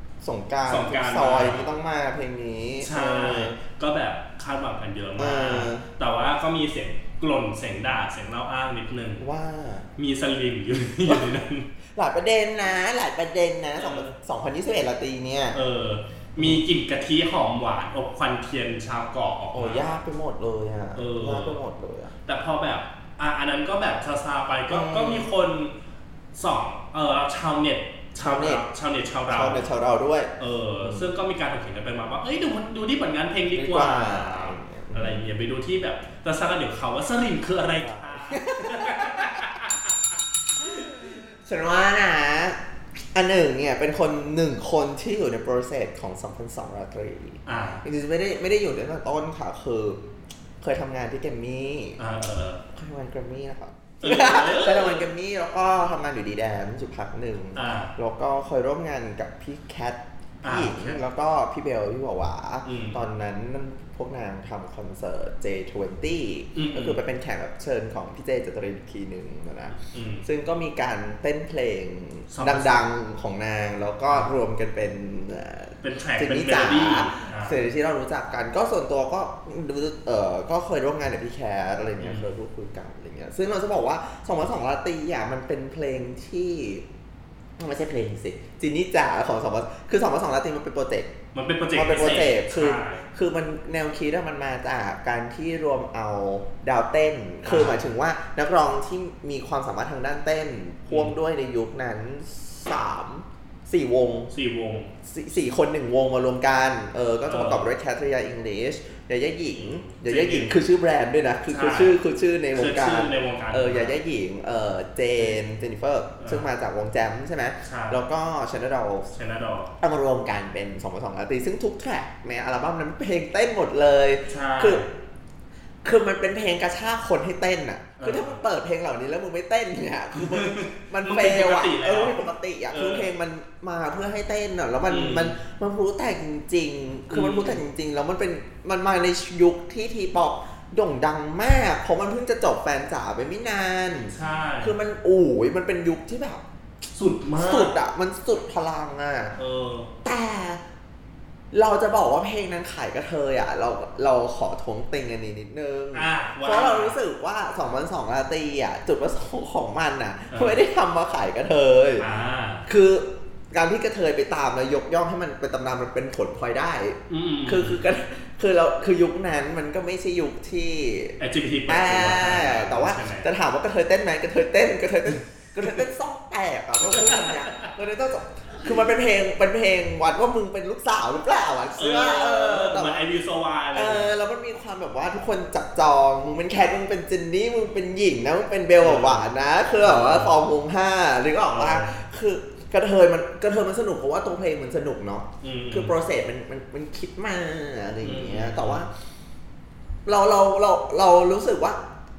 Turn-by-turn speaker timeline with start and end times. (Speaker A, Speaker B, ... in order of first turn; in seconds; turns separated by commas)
Speaker A: 0.2-3.6, Speaker B: 0.7-1.8, Speaker B: 2.8-9.2, Speaker A: 5.2-5.8, Speaker A: 9.2-9.9, Speaker B: 10.0-11.7, Speaker A: 11.9-15.6, Speaker B: 13.8-14.2, Speaker B: 15.5-19.9, Speaker A: 19.5-22.1, Speaker B: 20.9-21.6, Speaker B: 22.3-25.7, Speaker A: 24.7-25.3, Speaker B: 26.3-29.7, Speaker A: 28.2-28.6, Speaker A: 29.3-31.1, Speaker B: 30.4-40.0, Speaker A: 33.5-35.2, Speaker A: 37.8-39.5, Speaker A: 40.6-42.6, Speaker A: 43.1-50.0, Speaker B: 47.5-47.9, Speaker A: 50.6-52.0, Speaker B: 52.0-52.6, Speaker A: 52.7-86.8, Speaker B: 54.0-55.1, Speaker B: 57.5-57.9, Speaker B: 60.4-61.0, Speaker B: 62.6-63.0, Speaker B: 66.5-67.0, Speaker B: 69.7-70.3, Speaker B: 72.3-72.7, Speaker B: 75.8-77.6, Speaker B: 82.0-82.3, Speaker A: 87.6-91.1, Speaker B: 91.3-93.1, Speaker A: 91.7-104.3, Speaker B: 97.5-97.9, Speaker B: 100.9-101.2, Speaker B: 104.3-104.9, Speaker A: 105.0-119.1, Speaker B: 107.3-107.7, Speaker B: 109.5-110.6, Speaker B: 111.5-112.0, Speaker B: 112.5-114.0, Speaker B: 116.2-116.5, Speaker B: 117.6-118.0, Speaker B: 119.1-119.8, Speaker A: 119.8-124.8, Speaker B: 124.3-124.9, Speaker A: 125.8-146.4, Speaker B: 128.0-128.4, Speaker B: 130.1-133.1, Speaker B: 134.9-135.4, Speaker B: 137.1-137.6, Speaker B: 144.1-144.8, Speaker B: 146.9-147.8, Speaker A: 147.3-149.3, Speaker B: 149.4-149.9, Speaker A: 150.0-150.6, Speaker A: 151.5-162.1, Speaker B: 155.9-157.0, Speaker B: 160.3-160.6, Speaker B: 162.0-162.7, Speaker A: 162.7-183.1, Speaker B: 167.1-167.8, Speaker B: 171.2-173.3, Speaker B: 176.9-177.7, Speaker B: 181.8-184.1, Speaker A: 183.7-198.9, Speaker B: 188.8-190.4, Speaker B: 191.5-192.0, Speaker B: 195.4-195.9, Speaker B: 198.0-198.9, Speaker A: 200.1-201.8